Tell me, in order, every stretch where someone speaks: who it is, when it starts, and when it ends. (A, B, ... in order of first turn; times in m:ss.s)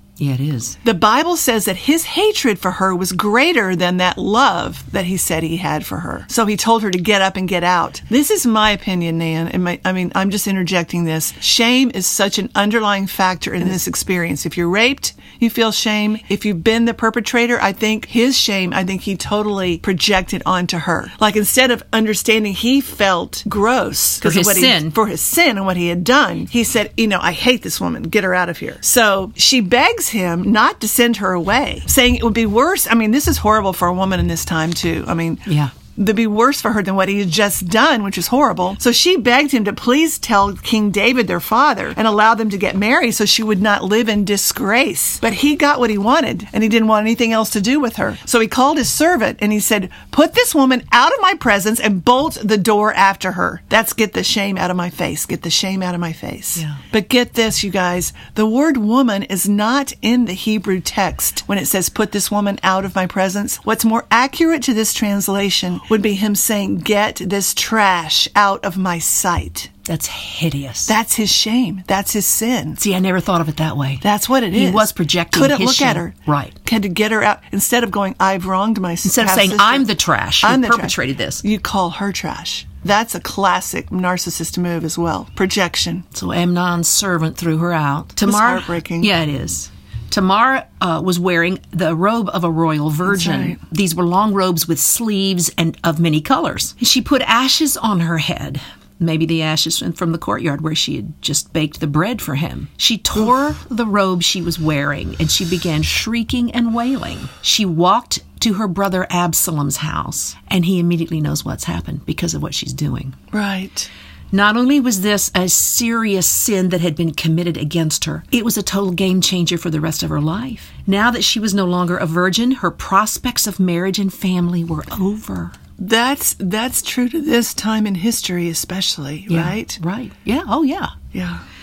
0:00.2-0:00.8 A
0:00.8-1:09.7 B
0:24.2-0:24.9 A
0:35.5-0:35.7 A
0:56.6-0:56.8 A
1:09.8-1:10.9 A
1:10.9-1:12.8 B
1:12.8-1:16.5 A
1:14.0-1:19.9 B
1:19.0-1:21.4 A
1:20.4-1:26.0 B
1:26.1-1:53.2 A
1:28.2-1:29.1 B
1:33.0-1:33.6 B
1:53.3-1:53.9 B
1:54.3-2:05.5 A
2:05.8-2:09.8 B
2:09.3-2:10.9 A
2:11.1-2:11.4 B